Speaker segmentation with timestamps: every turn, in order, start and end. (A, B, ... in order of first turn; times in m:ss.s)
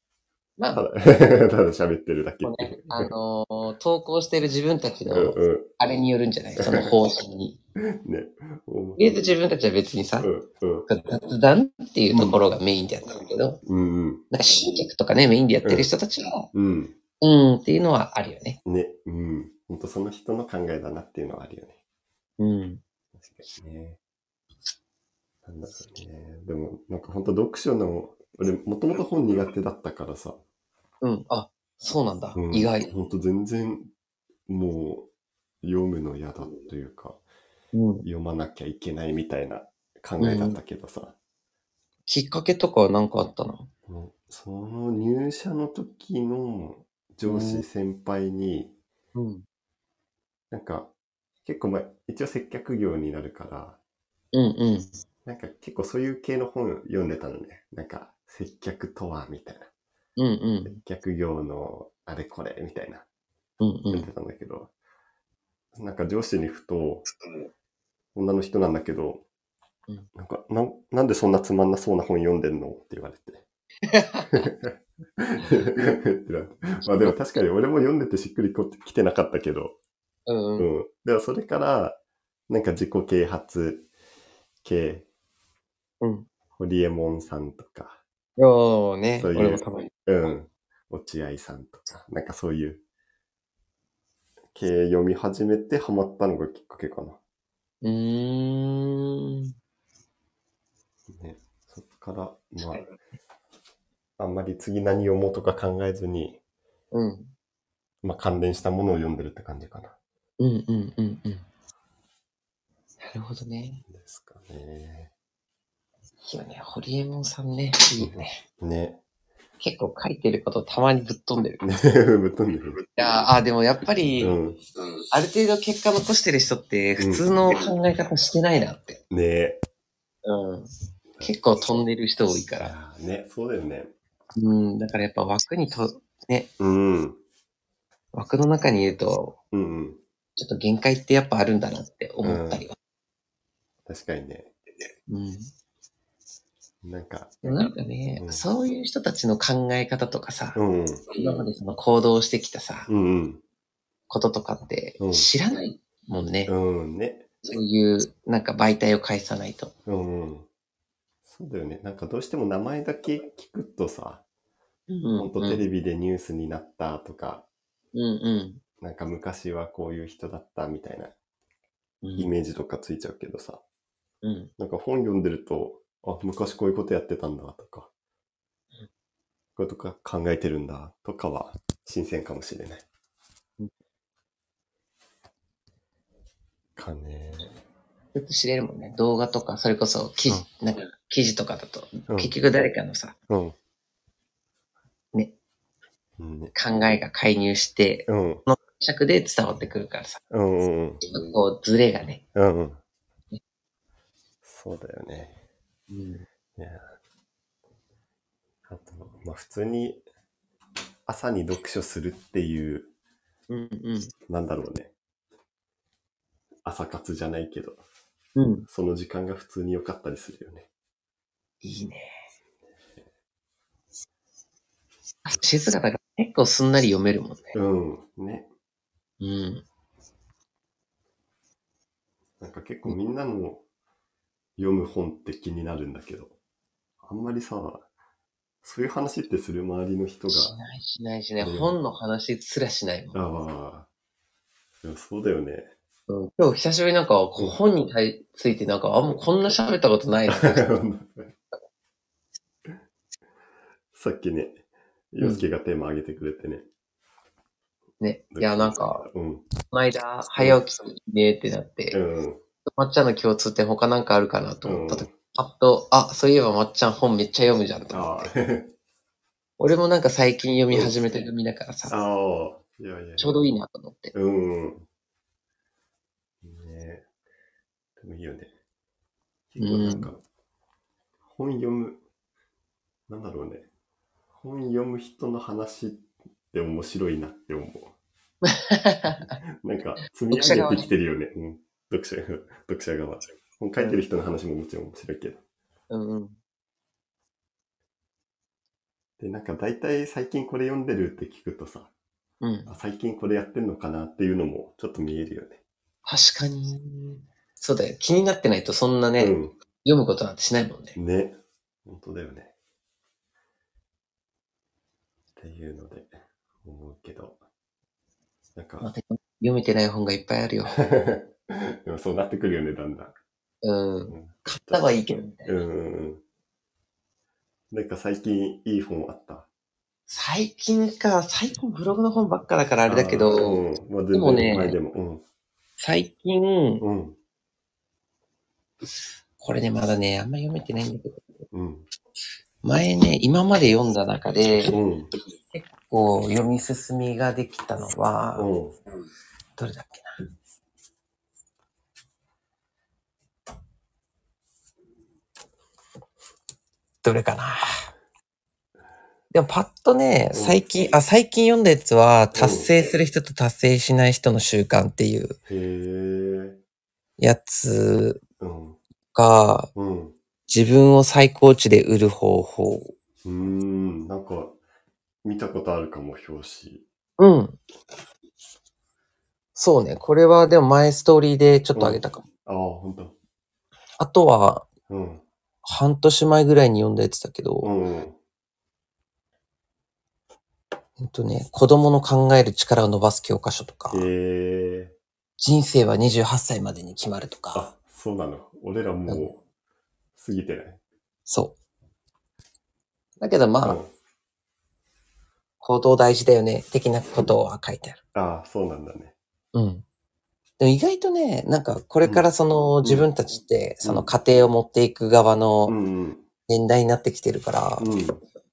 0:00.6-0:00.8 A
0:00.7-0:03.1 B
0:02.4-0:07.6 A
0:05.1-0:05.7 B
0:06.6-0:06.9 B
0:07.8-0:09.2 B
0:09.0-0:10.3 A
0:10.2-0:10.9 B
0:10.9-0:13.6 A
0:13.6-0:14.2 B
0:14.3-0:16.5 A
0:15.6-0:15.9 B
0:16.5-0:16.9 B
0:17.2-0:18.6 A
0:18.6-0:21.8 B
0:22.4-0:22.8 A
0:23.2-0:24.0 B
0:25.4-0:30.4 B
0:31.0-0:32.9 A
0:32.3-0:33.9 B
0:34.5-0:35.1 B
0:35.6-0:37.2 B
0:37.7-0:38.0 A
0:38.0-0:41.1 B
0:40.2-0:40.6 A
0:42.1-0:43.7 A
0:43.9-0:48.7 B
0:47.2-0:47.6 A
0:49.1-0:49.4 A
0:50.5-0:50.9 B
0:51.4-0:53.8 B
0:54.3-0:54.9 A
0:55.2-0:59.7 B
1:00.2-1:00.7 A
1:00.6-1:03.0 B
1:03.6-1:04.1 A
1:03.9-1:04.7 B
1:05.8-1:07.1 B
1:08.1-1:09.2 B
1:10.1-1:13.4 B
1:13.9-1:14.5 A
1:14.3-1:19.8 B
1:16.9-1:17.2 A
1:20.3-1:20.7 A
1:20.6-1:23.9 B
1:24.6-1:25.1 B
1:26.0-1:26.3 A
1:26.5-1:28.0 B
1:28.4-1:29.9 A
1:29.2-1:32.8 B
1:34.5-1:37.2 B
1:37.8-1:39.5 A
1:41.1-1:42.8 B
1:44.2-1:46.4 B
1:46.9-1:47.3 A
1:48.0-1:49.9 B
1:50.4-1:51.4 A
1:53.0-1:53.8 A
1:53.9-1:55.1 B
1:56.2-1:58.4 A
1:58.0-1:59.0 B
1:59.6-2:01.6 A
2:01.6-2:02.8 B
2:02.9-2:04.4 A
2:04.2-2:04.6 B
2:05.1-2:09.0 A
2:07.0-2:07.3 B
2:09.1-2:09.6 B
2:10.2-2:10.7 A
2:11.2-2:12.7 A
2:12.6-2:13.9 B
2:14.4-2:16.5 A
2:16.6-2:17.2 B
2:18.1-2:19.4 A
2:19.5-2:20.0 B
2:20.4-2:22.8 A
2:22.2-2:22.6 B
2:23.9-2:24.5 B
2:25.1-2:25.5 A
2:26.8-2:27.5 B
2:27.4-2:30.6 A
2:28.2-2:28.4 B
2:30.5-2:31.2 B
2:31.1-2:32.9 A
2:32.9-2:33.4 B
2:34.1-2:36.5 A
2:35.0-2:35.3 B
2:36.5-2:37.3 B
2:37.4-2:39.7 A
2:39.8-2:40.5 B
2:41.2-2:44.2 B
2:44.9-2:45.6 A
2:45.2-2:47.4 B
2:47.9-2:48.6 A
2:48.8-2:51.1 B
2:52.0-2:52.3 A
2:52.2-2:53.6 B
2:54.2-2:54.5 A
2:54.6-2:57.9 B
2:59.6-3:02.8 B
3:06.8-3:07.5 B
3:08.1-3:13.1 A
3:12.1-3:12.3 B
3:13.3-3:13.6 B
3:16.2-3:16.5 B
3:16.5-3:20.2 A
3:18.1-3:18.4 B
3:20.3-3:21.0 B
3:21.0-3:22.2 A
3:22.3-3:22.8 B
3:24.4-3:25.4 B
3:25.9-3:26.2 A
3:26.6-3:26.9 B
3:28.7-3:30.0 B
3:31.1-3:32.9 B
3:33.5-3:34.1 A
3:34.3-3:34.9 B
3:36.6-3:37.8 B
3:38.3-3:38.7 A
3:38.7-3:40.7 B
3:41.6-3:42.2 A
3:45.2-3:47.6 A
3:47.5-3:48.5 B
3:49.2-3:49.6 A
3:52.4-3:53.6 B
3:54.6-3:56.3 B
3:57.0-3:57.8 B
3:58.6-4:00.6 B
4:00.3-4:03.2 A
4:01.4-4:01.7 B
4:03.1-4:03.9 B
4:04.8-4:05.7 B
4:06.1-4:10.7 A
4:10.3-4:11.4 B
4:13.9-4:14.6 B
4:15.1-4:16.7 B
4:18.0-4:19.0 A
4:18.3-4:19.5 B
4:19.7-4:22.0 A
4:21.9-4:22.4 B
4:22.7-4:28.3 A
4:24.6-4:25.1 B
4:27.9-4:28.7 B
4:29.6-4:31.9 A
4:30.7-4:31.0 B
4:31.9-4:33.4 B
4:33.2-4:34.1 A
4:34.1-4:34.8 B
4:36.4-4:37.0 B
4:38.0-4:38.5 B
4:39.5-4:40.2 B
4:39.6-4:40.1 A
4:41.3-4:42.0 B
4:43.1-4:43.7 B
4:44.3-4:47.9 B
4:48.4-4:49.3 A
4:49.6-4:55.4 B
4:50.3-4:50.9 A
4:55.9-4:56.4 A
4:59.2-5:01.9 B
5:02.4-5:02.7 A
5:02.7-5:05.6 B
5:06.0-5:11.0 A
5:09.2-5:09.5 B
5:10.9-5:12.5 B
5:15.4-5:17.4 B
5:18.6-5:18.9 B
5:18.8-5:20.8 A
5:20.7-5:23.2 B
5:23.6-5:25.6 A
5:24.1-5:26.2 B
5:27.7-5:29.5 B
5:30.1-5:33.6 A
5:32.9-5:35.2 B
5:34.1-5:34.8 A
5:35.8-5:36.8 A
5:36.8-5:37.2 B
5:39.4-5:41.4 A
5:41.5-5:41.9 B
5:42.6-5:44.8 A
5:44.7-5:45.1 B
5:45.5-5:48.5 A
5:48.4-5:48.8 B
5:49.6-5:50.2 A
5:57.0-5:57.8 A
5:59.3-6:05.4 A
6:00.3-6:00.6 B
6:02.3-6:02.7 B
6:05.5-6:06.6 B
6:07.2-6:08.2 A
6:08.4-6:08.8 B
6:09.1-6:09.7 A
6:09.7-6:10.2 B
6:10.5-6:12.9 A
6:13.2-6:14.6 B
6:15.2-6:16.8 B
6:17.2-6:17.6 A
6:19.6-6:22.2 A
6:21.7-6:23.2 B
6:24.0-6:24.7 A
6:24.9-6:25.2 B
6:25.6-6:27.7 A
6:27.6-6:28.2 B
6:31.0-6:34.1 A
6:33.9-6:34.9 B
6:35.4-6:37.7 A
6:37.5-6:39.4 B
6:40.2-6:40.8 B
6:41.3-6:41.6 A
6:43.2-6:43.8 A
6:43.6-6:43.9 B
6:45.6-6:48.0 A
6:48.1-6:49.1 B
6:49.5-6:49.8 A
6:50.6-6:55.7 A
6:53.8-6:54.1 B
6:55.6-6:56.2 B
6:56.5-6:57.8 A
6:57.8-6:58.2 B